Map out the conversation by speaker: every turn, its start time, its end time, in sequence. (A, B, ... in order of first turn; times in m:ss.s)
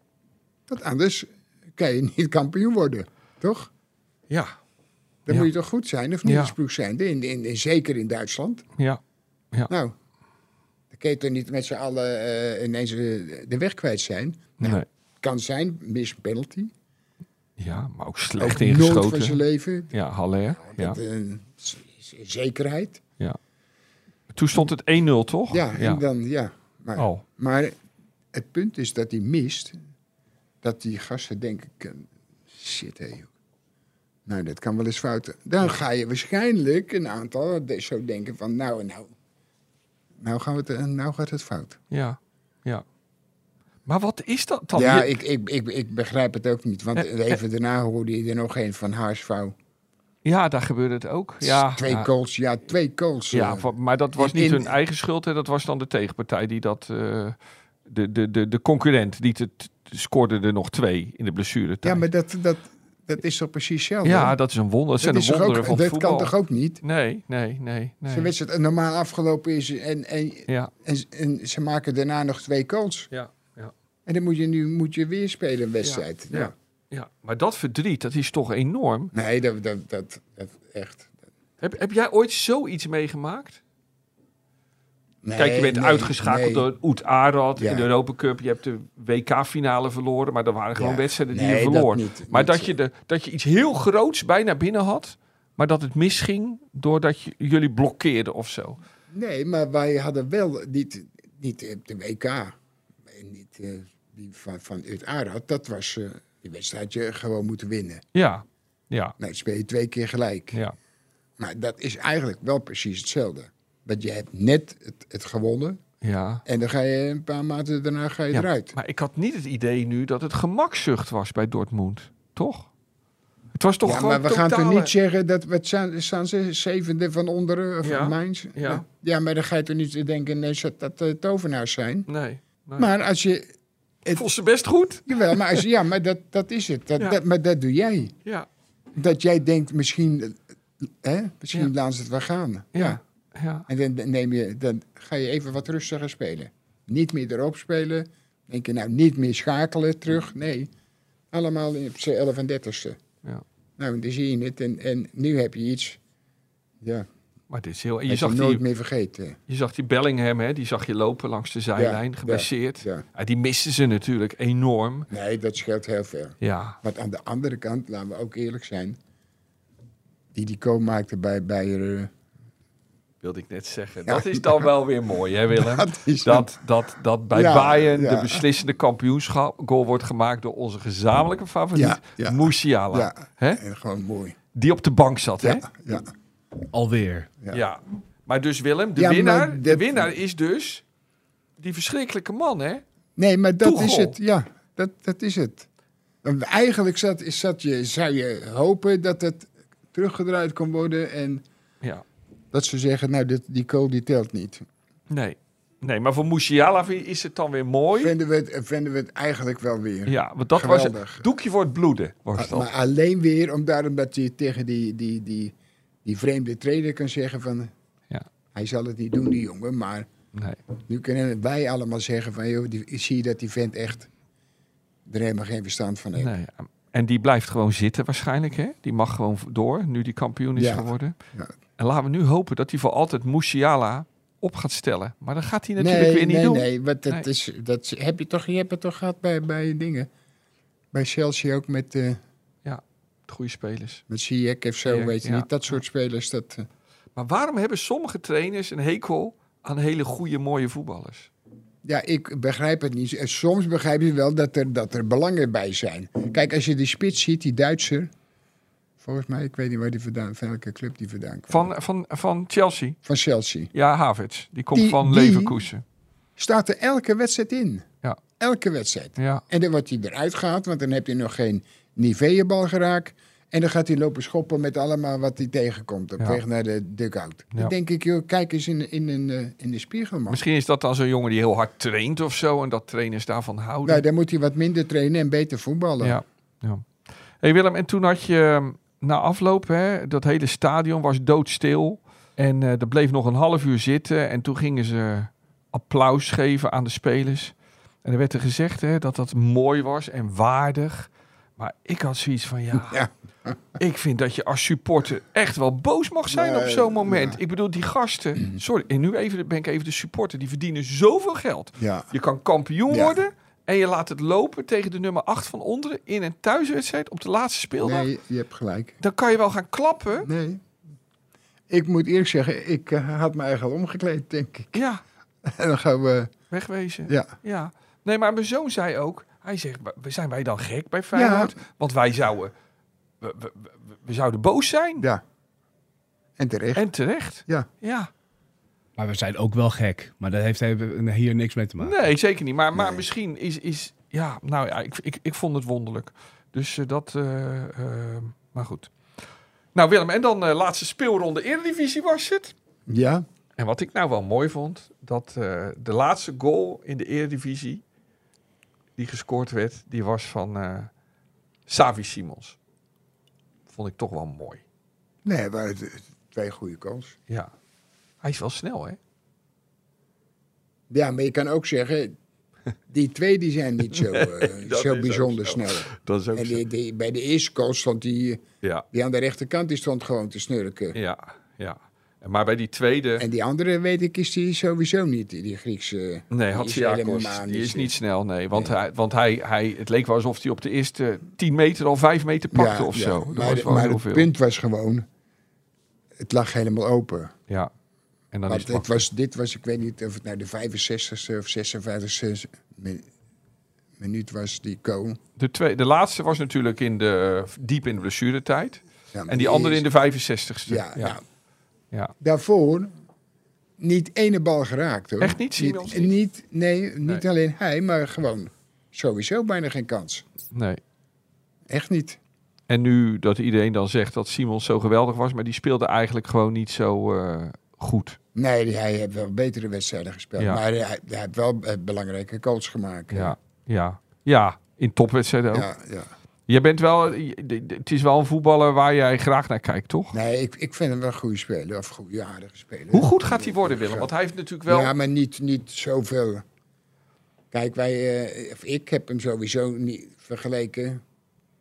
0:00.7-0:03.7 A
0:04.3-0:04.6 B
0:05.3-0:08.6 A
0:06.2-0:06.5 B
0:09.7-0:10.0 A
0:10.9-0:16.7 A
0:14.6-0:14.9 B
0:17.6-0:19.4 B
0:18.4-0:20.0 A
0:19.9-0:21.0 B
0:20.6-0:23.0 A
0:24.3-0:26.0 B
0:25.5-0:27.8 A
0:27.0-0:27.2 B
0:28.3-0:29.8 A
0:30.6-0:33.3 A
0:34.3-0:39.1 A
0:40.2-0:41.8 A
0:41.9-0:42.8 B
0:43.9-0:45.2 B
0:44.7-0:49.6 A
0:47.0-0:47.4 B
0:50.2-0:52.1 B
0:51.4-0:54.8 A
0:53.3-1:02.0 B
1:01.8-1:04.4 A
1:04.0-1:08.3 B
1:05.0-1:06.8 A
1:08.1-1:13.1 A
1:13.1-1:13.7 B
1:14.1-1:16.5 A
1:15.8-1:19.1 B
1:19.1-1:21.2 A
1:21.6-1:23.6 B
1:25.2-1:26.7 A
1:25.4-1:38.8 B
1:27.6-1:27.9 A
1:30.8-1:32.7 A
1:39.1-1:48.0 A
1:48.1-1:49.2 B
1:49.2-1:50.6 A
1:51.4-1:55.8 A
1:56.0-1:56.4 B
1:56.4-1:58.8 A
1:58.3-2:02.7 B
2:03.5-2:04.9 B
2:03.8-2:12.1 A
2:07.8-2:08.8 B
2:12.1-2:12.9 B
2:12.8-2:13.5 A
2:14.1-2:15.6 B
2:15.1-2:18.2 A
2:19.0-2:23.0 A
2:22.8-2:23.7 B
2:23.7-2:30.7 A
2:31.3-2:33.0 A
2:33.8-2:36.0 A
2:36.8-2:37.1 A
2:37.5-2:38.6 B
2:38.1-2:39.4 A
2:39.5-2:45.1 B
2:41.8-2:43.0 A
2:45.1-2:49.0 A
2:46.4-2:46.8 B
2:50.3-2:52.1 A
2:53.2-3:03.6 B
2:54.1-2:54.7 A
2:55.5-2:56.6 A
2:57.3-2:58.4 A
3:01.7-3:04.4 A
3:04.5-3:05.6 B
3:05.4-3:06.1 A
3:06.7-3:07.3 C
3:07.5-3:10.8 B
3:09.0-3:10.1 A
3:11.6-3:12.8 B
3:13.2-3:15.7 A
3:13.6-3:14.2 B
3:16.2-3:21.4 A
3:22.5-3:24.7 A
3:25.1-3:28.2 B
3:28.0-3:31.2 A
3:30.1-3:32.7 B
3:32.4-3:35.5 A
3:36.0-3:37.7 A
3:38.5-3:40.1 A
3:40.4-3:40.6 B
3:40.8-3:44.1 A
3:45.1-3:46.3 A
3:46.2-3:51.2 B
3:50.6-3:51.5 A
3:51.8-3:57.3 B
3:55.8-4:00.1 A
4:00.9-4:02.2 A
4:02.6-4:04.0 B
4:04.1-4:06.7 A
4:04.9-4:05.8 B
4:07.2-4:11.3 B
4:11.8-4:18.1 A
4:19.0-4:21.7 A
4:21.5-4:23.0 B
4:23.0-4:23.7 A
4:23.7-4:25.8 B
4:24.7-4:25.6 A
4:26.4-4:27.9 A
4:28.4-4:40.4 A
4:29.2-4:29.4 B
4:40.3-4:44.0 B
4:43.8-4:46.2 A
4:46.0-5:03.0 B
5:02.7-5:03.6 A
5:03.8-5:18.1 B
5:06.3-5:07.4 A
5:11.8-5:12.1 A
5:12.9-5:13.2 A
5:17.8-5:19.0 A
5:19.0-5:20.3 B
5:20.2-5:20.6 A
5:21.7-5:24.8 A
5:24.7-5:25.0 B
5:25.4-5:26.3 A
5:26.5-5:32.5 B
5:27.1-5:27.3 A
5:31.1-5:31.6 A
5:33.2-5:35.1 B
5:36.4-5:36.9 A
5:36.8-5:38.1 B
5:39.0-5:42.0 C
5:41.8-5:49.2 B
5:42.8-5:43.0 A
5:49.8-5:52.5 B
5:52.9-5:53.2 A
5:53.6-5:57.8 B
5:59.0-6:00.9 B
6:01.7-6:02.6 B
6:03.7-6:04.6 B
6:05.2-6:07.2 A
6:08.2-6:09.0 B
6:10.9-6:12.2 A
6:12.9-6:21.0 A
6:13.9-6:16.6 B
6:20.9-6:23.2 B
6:23.2-6:27.9 A
6:26.3-6:34.3 B
6:32.5-6:35.1 A
6:36.2-6:37.4 A
6:38.3-6:39.0 B
6:38.5-6:43.1 A
6:44.0-6:45.2 A
6:45.4-6:51.2 B
6:49.1-6:49.9 A
6:50.7-6:51.2 A
6:52.2-6:52.9 A
6:53.8-7:00.3 A
6:55.2-6:56.2 B
7:00.5-7:00.8 B
7:01.7-7:02.2 A
7:02.7-7:08.2 B
7:08.4-7:13.4 A
7:13.1-7:15.7 B
7:15.5-7:16.1 A
7:16.5-7:20.2 B
7:20.1-7:24.1 A
7:22.9-7:24.9 B
7:24.7-7:26.4 A
7:27.5-7:31.0 A